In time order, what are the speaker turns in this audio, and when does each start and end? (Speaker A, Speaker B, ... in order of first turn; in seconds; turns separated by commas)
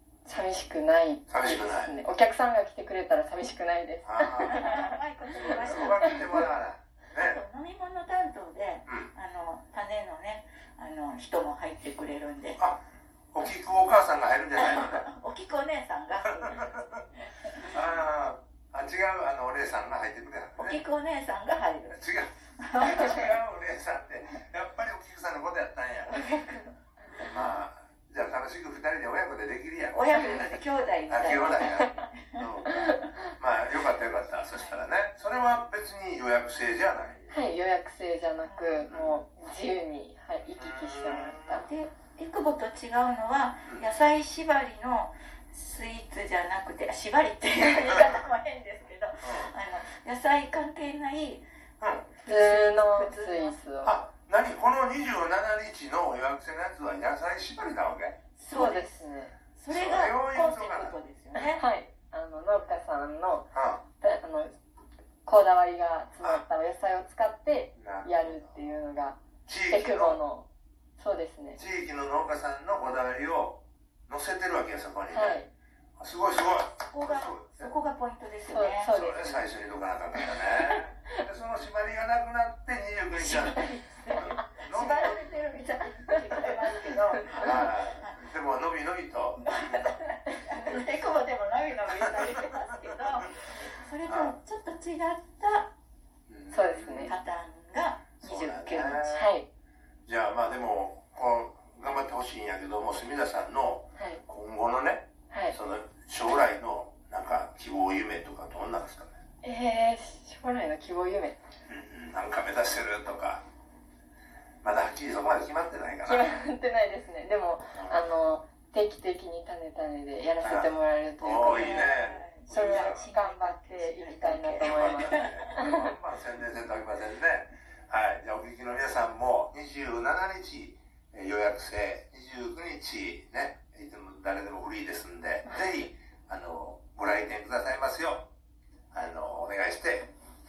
Speaker A: 0.2-4.8, Speaker B: 1.3-1.9, Speaker B: 4.0-4.7, Speaker C: 4.5-6.5, Speaker B: 5.3-7.4, Speaker C: 7.2-12.6, Speaker B: 8.9-9.1, Speaker B: 12.6-15.1, Speaker C: 14.6-16.8, Speaker B: 16.2-17.1, Speaker B: 17.6-20.8, Speaker C: 20.6-22.0, Speaker B: 21.9-26.4, Speaker C: 22.6-23.3, Speaker C: 26.2-26.7, Speaker B: 27.1-30.5, Speaker C: 29.9-32.5, Speaker B: 31.1-37.4, Speaker C: 34.5-34.8, Speaker A: 37.3-41.7, Speaker C: 38.4-38.8, Speaker B: 38.9-39.2, Speaker B: 40.6-41.7, Speaker C: 41.6-51.5, Speaker B: 49.2-49.5, Speaker B: 51.8-52.2, Speaker C: 52.2-53.6, Speaker A: 52.3-54.0, Speaker B: 53.8-58.2, Speaker C: 58.4-59.0, Speaker A: 58.5-59.3, Speaker C: 59.6-61.6, Speaker B: 59.7-61.0, Speaker A: 61.4-64.5, Speaker B: 63.5-63.8, Speaker A: 65.2-71.6, Speaker B: 67.8-68.5, Speaker B: 69.5-70.2, Speaker B: 71.6-75.4, Speaker A: 75.1-75.5, Speaker B: 76.0-77.7, Speaker C: 76.9-79.0, Speaker A: 78.5-79.5, Speaker B: 78.9-85.3, Speaker A: 80.2-80.8, Speaker C: 83.2-88.3, Speaker A: 83.6-84.5, Speaker B: 87.3-89.9, Speaker C: 89.4-95.7, Speaker B: 92.0-93.3, Speaker B: 94.0-94.4, Speaker B: 96.3-97.2, Speaker A: 96.5-97.1, Speaker C: 97.1-99.3, Speaker B: 98.2-99.3, Speaker A: 99.1-99.5, Speaker B: 100.1-109.2, Speaker A: 104.0-104.2, Speaker A: 105.3-105.6, Speaker A: 109.4-111.4, Speaker B: 111.7-113.5, Speaker B: 114.6-116.4, Speaker A: 116.0-121.9, Speaker B: 117.7-118.1, Speaker B: 120.4-123.1, Speaker C: 121.5-125.6, Speaker A: 122.5-126.0, Speaker B: 124.6-138.3, Speaker B: 138.9-140.1